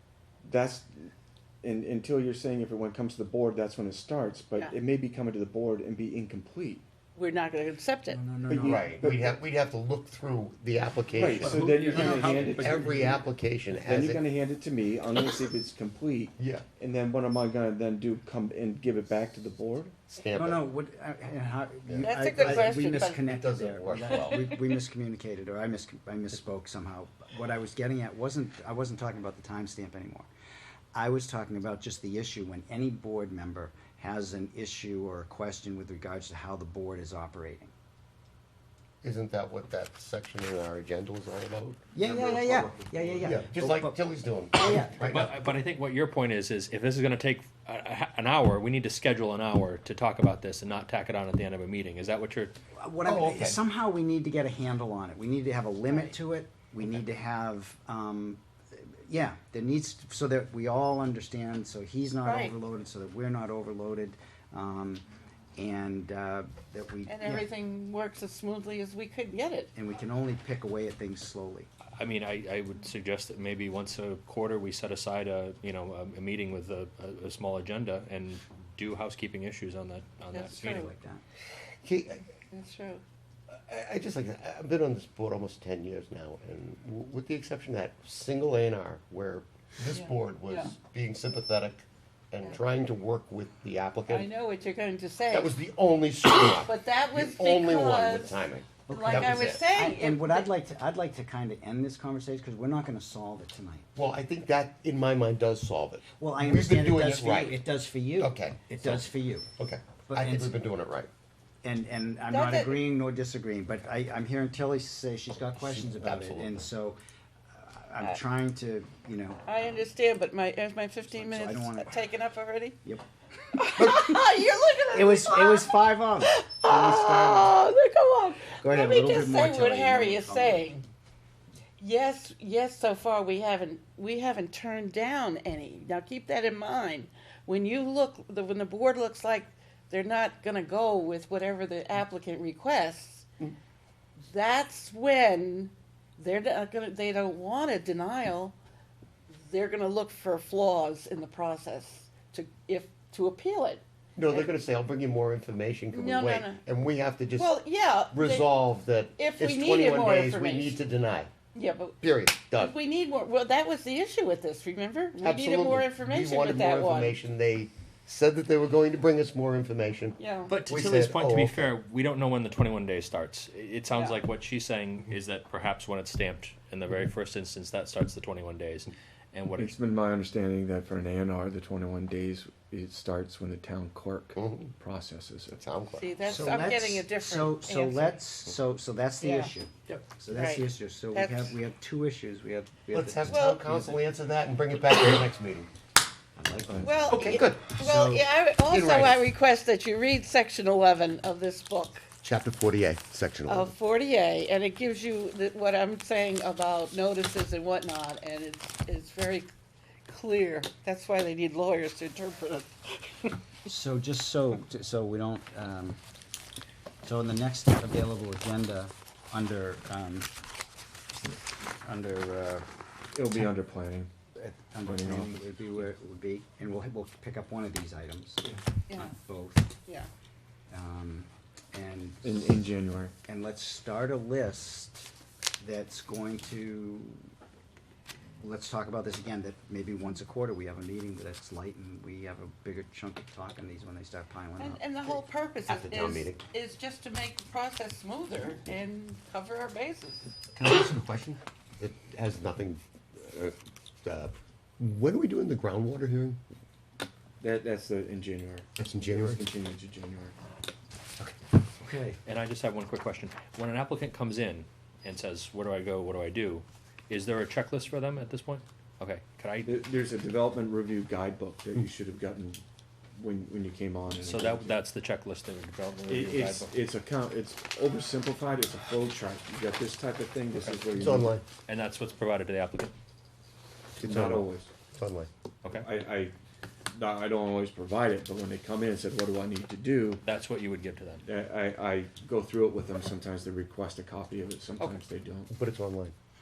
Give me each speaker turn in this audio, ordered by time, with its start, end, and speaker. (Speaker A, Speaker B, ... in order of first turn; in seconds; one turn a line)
Speaker A: 0.5-0.8
Speaker A: 1.6-6.8
Speaker B: 7.2-8.2
Speaker C: 8.1-9.2
Speaker A: 8.5-8.9
Speaker D: 8.6-14.2
Speaker A: 11.2-13.2
Speaker C: 11.4-12.9
Speaker E: 11.7-12.6
Speaker A: 13.8-20.0
Speaker D: 16.4-16.7
Speaker D: 20.1-20.6
Speaker C: 20.3-30.3
Speaker D: 21.9-24.5
Speaker B: 22.0-23.2
Speaker C: 30.9-37.7
Speaker D: 39.0-45.3
Speaker C: 41.9-44.0
Speaker C: 44.5-45.1
Speaker E: 44.7-52.6
Speaker C: 52.8-58.4
Speaker D: 53.0-53.6
Speaker C: 59.0-65.0
Speaker B: 62.2-62.5
Speaker C: 65.5-67.5
Speaker B: 67.1-69.7
Speaker C: 69.8-71.7
Speaker E: 72.0-80.8
Speaker B: 80.4-80.8
Speaker C: 80.5-81.2
Speaker D: 81.8-82.2
Speaker B: 82.5-83.0
Speaker D: 83.5-94.3
Speaker B: 89.9-90.7
Speaker B: 94.1-95.5
Speaker D: 95.3-99.6
Speaker B: 96.5-100.5
Speaker C: 98.9-103.9
Speaker D: 104.0-107.6
Speaker C: 106.2-109.5
Speaker D: 108.2-111.1
Speaker C: 110.1-110.7
Speaker C: 111.6-117.0
Speaker B: 112.3-112.8
Speaker D: 115.6-116.7
Speaker C: 117.6-119.4
Speaker B: 119.5-122.8
Speaker C: 121.1-122.0
Speaker B: 123.6-130.8
Speaker C: 124.9-127.5
Speaker C: 128.6-130.7
Speaker B: 131.8-143.3
Speaker B: 144.3-148.6
Speaker B: 149.3-154.5
Speaker D: 154.2-157.6
Speaker B: 156.0-156.6
Speaker B: 157.4-158.6
Speaker D: 158.1-161.3
Speaker B: 159.2-160.8
Speaker B: 161.5-167.2
Speaker D: 162.0-162.8
Speaker D: 165.2-171.7
Speaker B: 170.2-170.6
Speaker E: 170.5-179.8
Speaker B: 173.9-174.2
Speaker A: 179.6-185.5
Speaker D: 184.3-184.7
Speaker D: 185.5-186.2
Speaker B: 185.9-188.2
Speaker C: 186.3-194.0
Speaker B: 189.2-191.6
Speaker D: 192.9-195.7
Speaker B: 193.3-193.7
Speaker C: 196.4-198.3
Speaker B: 196.8-202.1
Speaker D: 197.1-197.8
Speaker D: 198.6-199.2
Speaker D: 202.2-203.7
Speaker B: 203.5-209.5
Speaker B: 210.1-213.3
Speaker C: 213.7-216.0
Speaker C: 217.0-220.3
Speaker C: 221.8-222.7
Speaker A: 223.2-224.1
Speaker C: 224.4-229.8
Speaker A: 224.9-225.3
Speaker C: 230.7-232.5
Speaker A: 232.2-233.1
Speaker C: 233.3-235.1
Speaker C: 235.6-237.2
Speaker C: 238.4-245.2
Speaker B: 244.6-250.3
Speaker D: 245.7-246.4
Speaker D: 250.6-256.4
Speaker A: 257.4-260.4
Speaker D: 258.8-259.4
Speaker A: 261.9-262.2
Speaker E: 262.3-269.8
Speaker A: 269.6-272.6
Speaker A: 273.2-274.8
Speaker E: 274.1-276.8
Speaker A: 276.1-281.3
Speaker E: 280.5-280.8
Speaker D: 280.9-281.4
Speaker E: 281.7-282.9
Speaker D: 284.0-285.3
Speaker A: 284.0-284.7
Speaker E: 285.6-285.9
Speaker A: 285.7-286.3
Speaker A: 287.0-290.2
Speaker E: 290.2-291.2
Speaker A: 291.2-295.5
Speaker D: 295.5-296.1